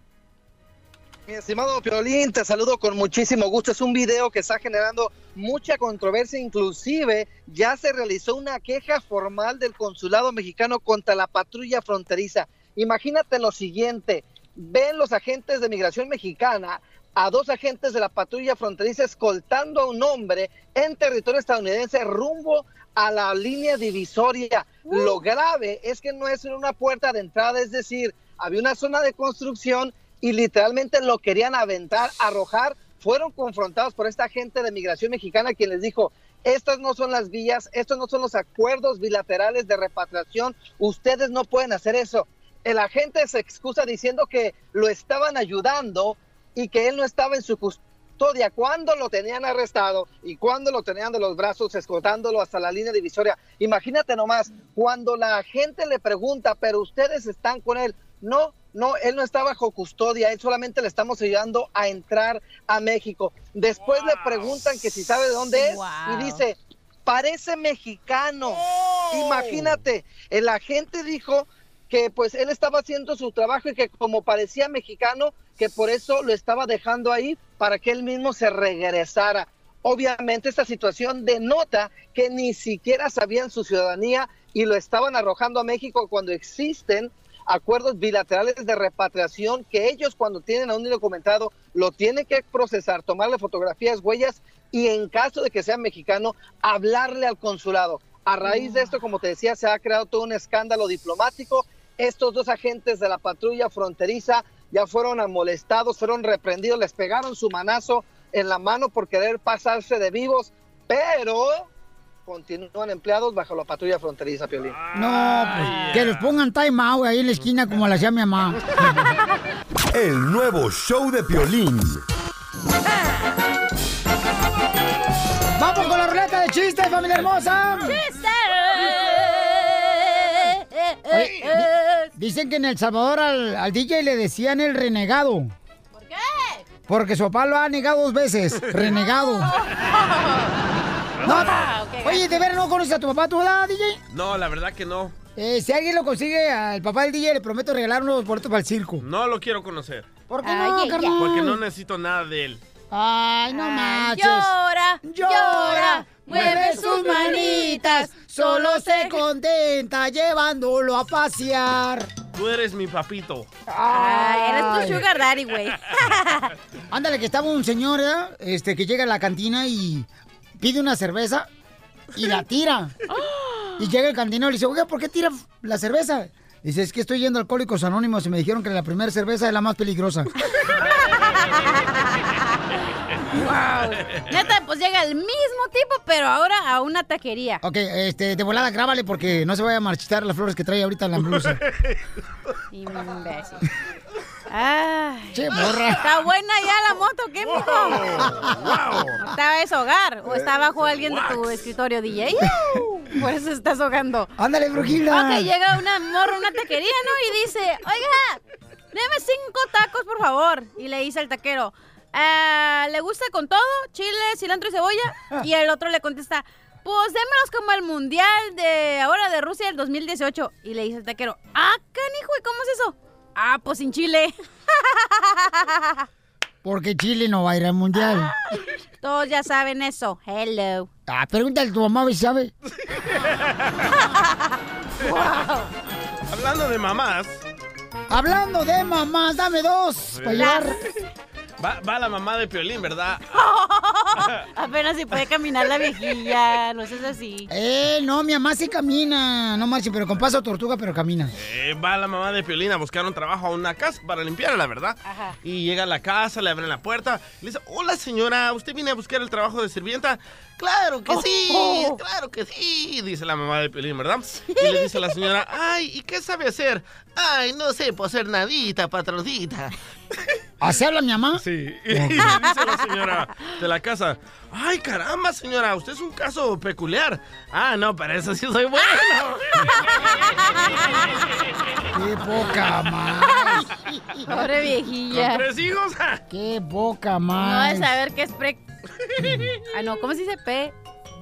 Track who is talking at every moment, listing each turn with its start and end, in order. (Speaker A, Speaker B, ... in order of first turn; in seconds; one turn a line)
Speaker A: 1.3-111.7
Speaker B: 24.9-25.2
Speaker C: 63.8-64.6
Speaker B: 65.5-66.4
Speaker C: 68.5-69.8
Speaker A: 112.3-114.8
Speaker C: 114.8-116.3
Speaker D: 114.9-118.6
Speaker E: 119.9-122.0
Speaker D: 125.6-128.0
Speaker B: 127.8-132.1
Speaker D: 131.1-135.5
Speaker B: 135.9-136.6
Speaker D: 136.9-139.5
Speaker B: 139.4-140.6
Speaker C: 141.2-141.7
Speaker B: 141.2-142.4
Speaker D: 141.2-144.0
Speaker C: 144.1-145.1
Speaker D: 145.4-149.1
Speaker C: 149.0-150.1
Speaker D: 150.3-151.6
Speaker B: 150.4-151.3
Speaker C: 151.2-152.6
Speaker D: 152.9-154.5
Speaker B: 153.5-159.2
Speaker D: 155.0-162.1
Speaker C: 162.3-163.5
Speaker D: 163.7-165.0
Speaker B: 163.9-166.5
Speaker D: 166.9-170.1
Speaker D: 170.6-171.5
Speaker D: 172.1-172.9
Speaker B: 173.2-173.8
Speaker D: 173.8-180.3
Speaker B: 183.3-187.6
Speaker D: 187.6-191.6
Speaker C: 191.2-192.0
Speaker B: 192.7-193.6
Speaker B: 194.5-195.4
Speaker D: 195.3-196.0
Speaker B: 196.0-198.2
Speaker C: 197.4-199.2
Speaker D: 198.4-198.7
Speaker B: 199.2-202.5
Speaker C: 200.4-201.7
Speaker B: 203.1-204.3
Speaker D: 204.4-205.5
Speaker B: 205.1-208.4
Speaker B: 208.9-224.3
Speaker B: 225.2-226.0
Speaker D: 226.6-228.3
Speaker B: 227.9-228.4
Speaker B: 229.0-230.9
Speaker D: 231.1-232.5
Speaker B: 235.0-235.7
Speaker C: 236.3-237.4
Speaker D: 238.1-240.8
Speaker C: 240.1-240.6
Speaker B: 240.3-240.7
Speaker C: 241.6-243.3
Speaker B: 243.3-247.5
Speaker D: 247.5-251.3
Speaker C: 251.4-269.7
Speaker B: 255.1-255.4
Speaker B: 261.1-262.0
Speaker B: 264.5-265.1
Speaker D: 270.6-272.2
Speaker C: 271.4-279.9
Speaker B: 272.3-272.6
Speaker D: 281.9-283.7
Speaker B: 284.3-285.4
Speaker C: 285.1-286.2
Speaker D: 286.3-287.9
Speaker B: 287.4-288.6
Speaker B: 289.7-290.7